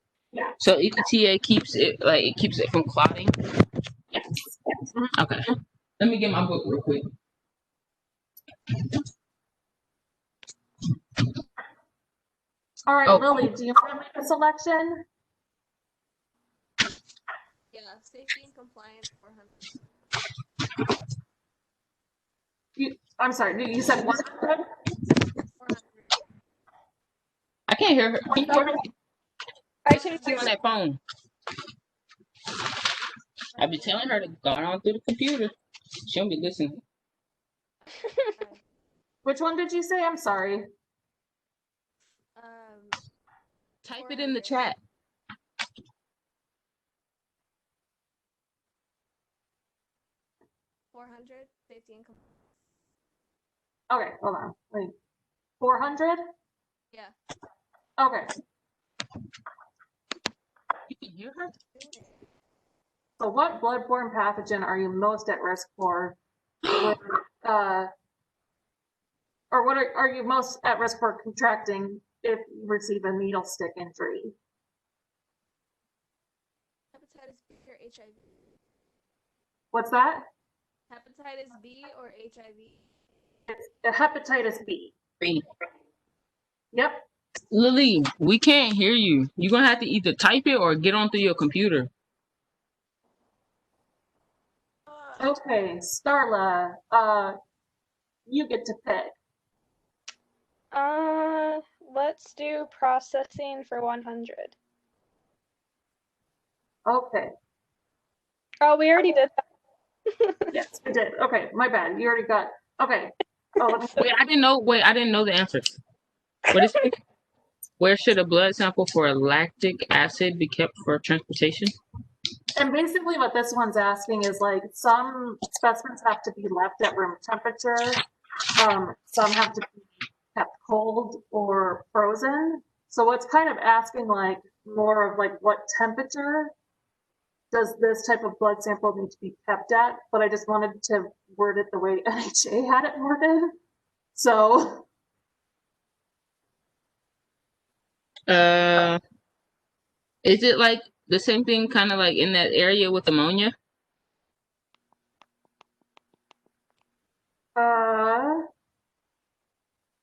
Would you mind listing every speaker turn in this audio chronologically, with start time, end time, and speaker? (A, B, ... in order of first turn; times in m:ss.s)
0:00.6-0:03.3 A
0:05.2-0:05.5 A
0:06.0-0:07.0 A
0:12.9-0:15.0 B
0:13.1-0:13.4 A
0:17.7-0:19.7 C
0:22.8-0:24.6 B
0:25.6-0:26.0 C
0:27.7-0:28.8 A
0:29.8-0:30.5 D
0:30.0-0:31.0 A
0:33.6-0:34.3 C
0:33.6-0:35.5 A
0:36.1-0:36.8 A
0:38.4-0:38.6 C
0:39.2-0:40.7 B
0:42.4-0:43.0 C
0:43.8-0:44.8 A
0:43.9-0:44.7 C
0:50.9-0:52.2 C
0:53.9-0:54.9 B
0:55.6-0:56.2 B
0:58.0-0:58.3 B
1:00.9-1:01.5 A
1:01.8-1:02.1 C
1:03.2-1:06.2 B
1:06.7-1:07.9 B
1:09.5-1:14.3 B
1:16.9-1:18.2 C
1:19.7-1:20.2 B
1:20.9-1:22.8 C
1:23.5-1:24.9 B
1:26.7-1:27.0 B
1:27.5-1:31.9 A
1:35.2-1:37.4 B
1:38.3-1:39.1 B
1:40.7-1:44.6 D
1:46.9-1:47.3 B
1:48.6-1:49.4 D
1:50.1-1:50.5 D
1:50.5-1:54.0 B
1:53.6-1:54.0 D
1:54.0-1:55.8 A
1:56.5-1:57.0 A
1:57.8-2:01.7 A
2:02.6-2:08.0 B
2:08.6-2:16.5 B
2:17.5-2:23.5 B
2:24.2-2:24.9 B
2:28.3-2:29.0 A
2:30.2-2:33.5 A
2:37.6-2:38.4 B